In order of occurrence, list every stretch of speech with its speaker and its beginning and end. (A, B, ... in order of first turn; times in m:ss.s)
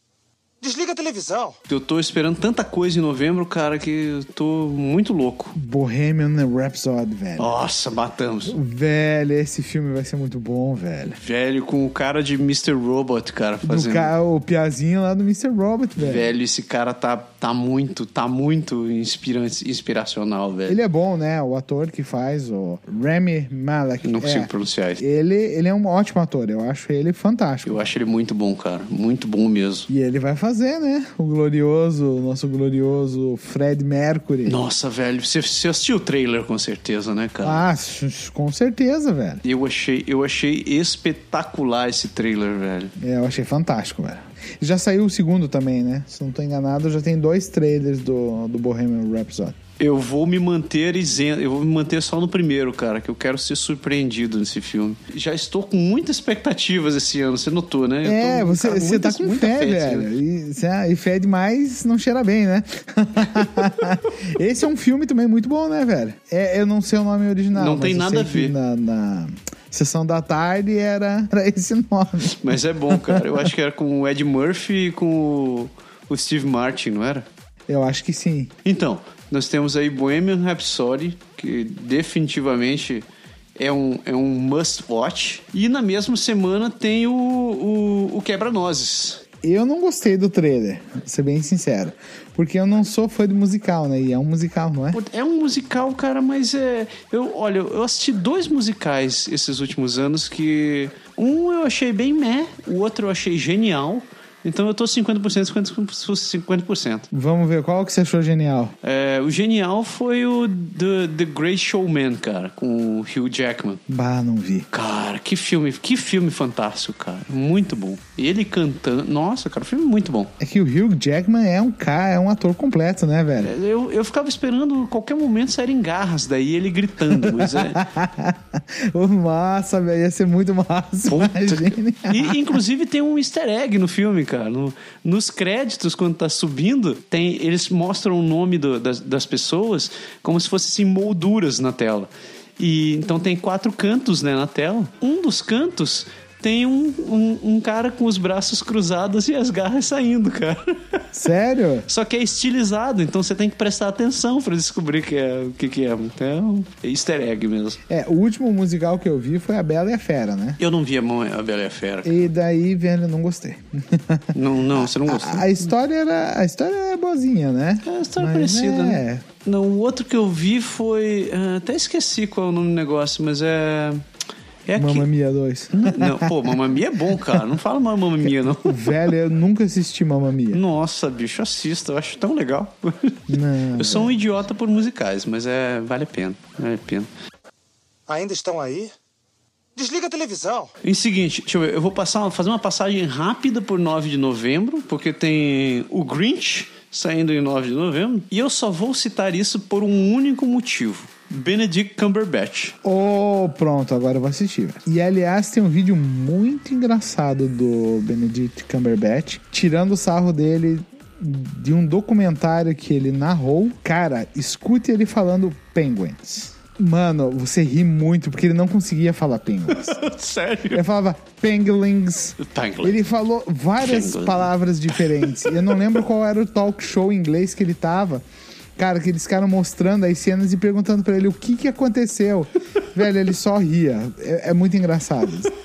0:00.6-0:01.6 A
0:01.7-0:05.6 B
0:05.5-0:07.6 C
0:07.4-0:08.6 B
0:08.5-0:11.2 C
0:11.1-0:14.1 B
0:13.6-0:16.3 C
0:16.0-0:20.8 B
0:20.7-0:27.9 C
0:24.0-0:25.0 B
0:27.6-0:29.9 B
0:29.9-0:34.6 C
0:34.4-0:37.6 B
0:37.4-0:39.4 C
0:39.4-0:42.9 B
0:43.0-0:49.6 C
0:49.8-1:00.1 B
0:58.0-1:13.5 C
1:07.5-1:08.5 B
1:12.3-1:17.2 B
1:17.7-1:18.5 C
1:18.6-1:23.0 B
1:23.6-1:29.2 B
1:29.4-1:35.0 C
1:34.9-1:47.1 B
1:47.1-1:48.7 C
1:48.8-1:53.8 B
1:53.9-1:54.7 C
1:54.7-2:00.3 B
2:00.4-2:03.5 C
2:03.4-2:07.9 B
2:07.1-2:12.5 C
2:11.1-2:31.0 B
2:31.1-2:31.9 C
2:31.9-2:37.8 B
2:37.9-2:40.6 C
2:40.6-2:42.2 B
2:42.0-2:49.2 C
2:44.3-2:45.6 B
2:47.8-2:54.0 B
2:54.7-2:55.1 B
2:54.8-2:56.6 C
2:55.7-2:58.9 B
2:58.5-3:00.6 C
3:00.5-3:07.1 B
3:03.3-3:04.2 C
3:08.1-3:08.9 A
3:09.8-3:10.7 A
3:10.8-3:22.8 B
3:22.8-3:40.0 C
3:39.7-3:40.8 B
3:40.7-3:48.2 C
3:42.4-3:43.0 B
3:43.8-3:45.5 B
3:48.8-3:55.5 C